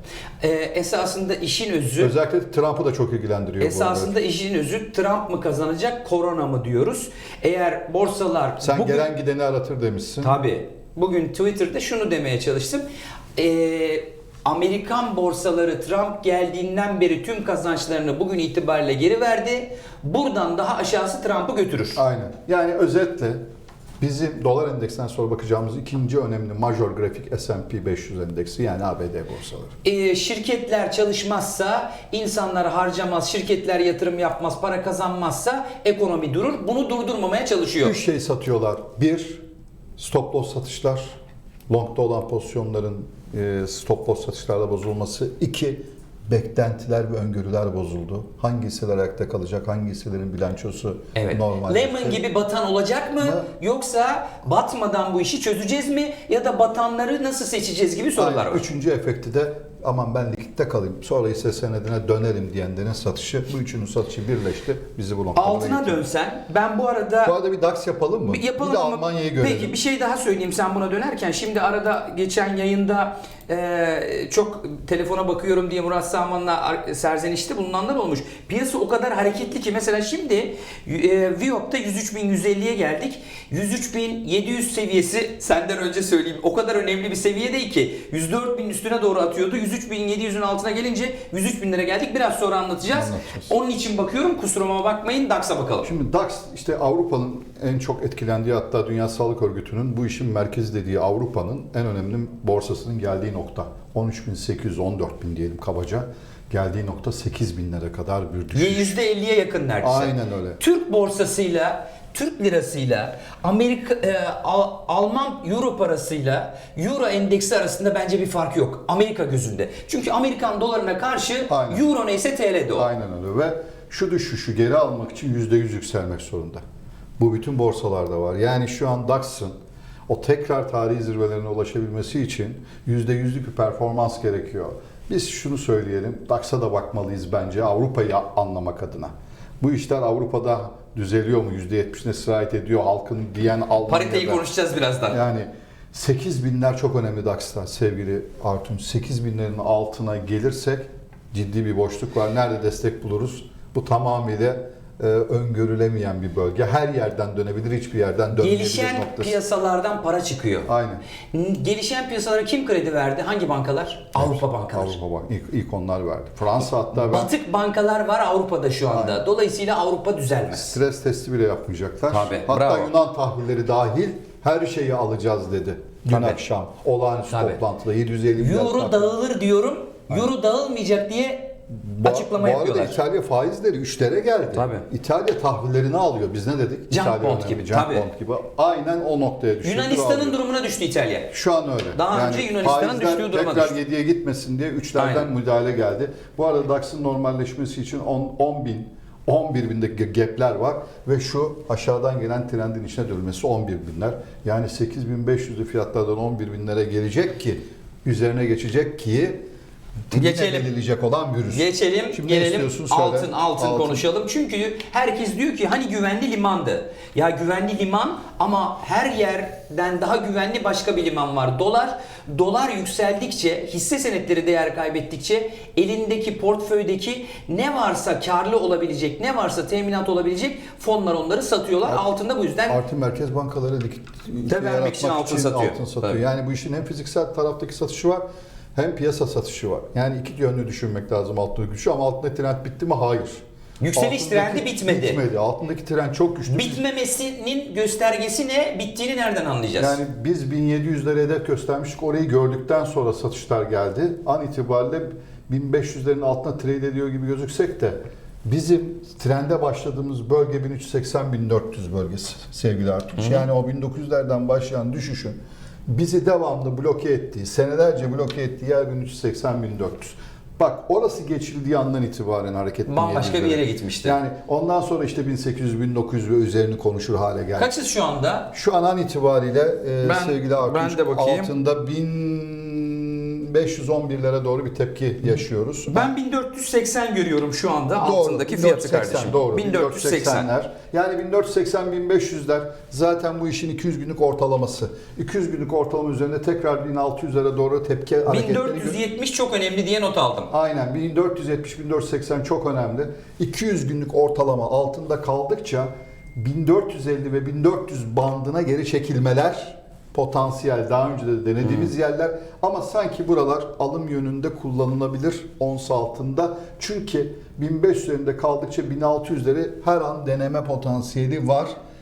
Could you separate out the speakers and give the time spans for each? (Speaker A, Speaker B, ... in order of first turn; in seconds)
Speaker A: 0.4-2.1, 3.6-9.1, 10.2-12.8, 13.4-22.0, 29.8-38.0, 51.1-58.6, 65.3-67.4, 68.3-95.9, 108.5-122.9, 143.9-145.2, 158.3-160.7, 161.3-165.0, 166.9-170.8, 172.1-172.9, 176.1-176.4, 177.3-177.6, 178.4-183.0, 184.5-184.9, 186.9-188.1, 189.6-191.3, 191.9-193.8, 195.0-195.3, 210.1-210.7, 211.5-232.8, 234.5-236.2, 243.8-245.2, 246.5-250.0, 263.2-263.4, 272.9-274.2, 277.6-278.5, 280.0-281.5, 285.9-290.5, 298.3-300.5, 311.6-311.9
Speaker B: 2.0-4.1, 8.6-10.4, 22.0-23.4, 24.0-29.7, 37.8-39.4, 40.0-41.1, 41.7-52.2, 53.2-53.5, 58.2-66.0, 67.2-69.8, 92.9-93.5, 95.8-109.0, 109.8-110.6, 121.5-121.9, 122.7-126.6, 127.2-129.5, 130.1-144.4, 145.1-159.4, 160.7-161.0, 164.2-167.3, 168.9-169.2, 170.5-179.1, 181.7-190.4, 191.3-209.4, 210.1-214.0, 232.7-238.2, 238.8-243.4, 243.9-246.8, 249.8-277.7, 278.5-286.1, 288.0-299.0, 300.5-321.8